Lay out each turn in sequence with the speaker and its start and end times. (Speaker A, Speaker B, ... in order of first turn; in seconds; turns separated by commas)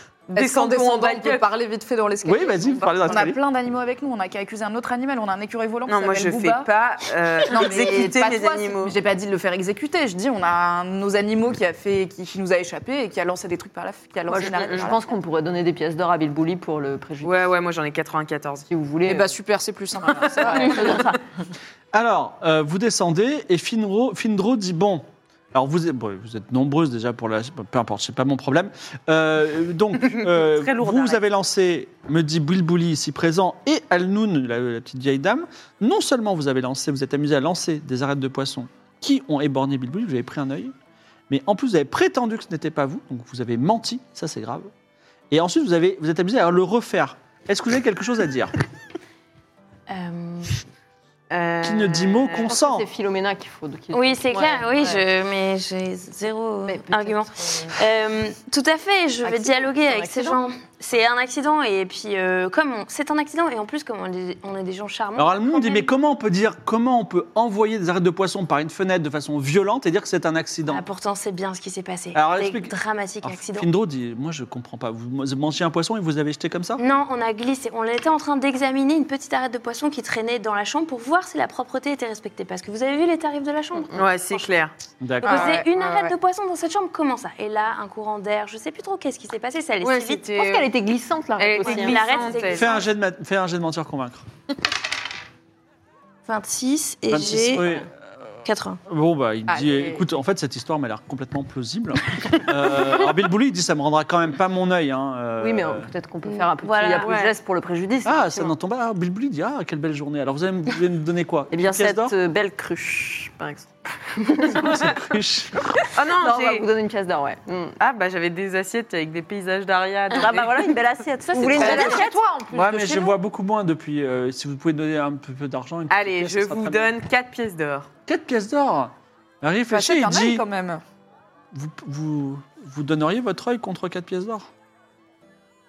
Speaker A: 0.3-15.0, Speaker B: 0.3-1.4, Speaker C: 2.2-3.4, Speaker B: 5.9-9.0, Speaker D: 14.3-17.3, Speaker B: 17.2-18.7, Speaker D: 18.7-19.3, Speaker A: 19.0-21.1, Speaker D: 20.2-21.2, Speaker B: 20.4-21.0, Speaker C: 21.9-40.7, Speaker B: 30.2-31.2, Speaker C: 41.3-44.7, Speaker C: 45.3-48.5, Speaker E: 49.9-50.6, Speaker B: 51.3-52.5, Speaker C: 51.6-52.9, Speaker D: 52.4-55.0, Speaker E: 53.9-65.9, Speaker D: 56.7-57.7, Speaker D: 59.2-60.4, Speaker C: 65.2-70.8, Speaker E: 70.7-73.7, Speaker C: 72.1-76.8, Speaker E: 76.8-84.4, Speaker B: 83.9-84.7, Speaker C: 85.0-85.6, Speaker A: 85.2-86.1, Speaker E: 85.2-90.4, Speaker B: 89.9-90.7, Speaker D: 90.2-92.3, Speaker B: 91.4-92.7, Speaker E: 91.6-92.9, Speaker C: 92.5-94.2, Speaker E: 96.2-97.9, Speaker C: 97.1-105.9, Speaker E: 98.4-98.8, Speaker A: 99.5-100.0, Speaker D: 105.4-108.5, Speaker E: 106.2-107.1, Speaker B: 107.0-107.3, Speaker C: 108.0-112.1, Speaker D: 111.5-114.9, Speaker C: 114.5-115.8, Speaker B: 115.9-116.7, Speaker D: 116.1-117.8, Speaker B: 117.8-120.7, Speaker D: 120.1-122.2, Speaker A: 121.3-123.2, Speaker B: 121.4-122.1, Speaker C: 122.5-126.9, Speaker B: 125.9-127.9, Speaker C: 128.1-130.4, Speaker A: 129.7-130.8, Speaker C: 131.5-134.5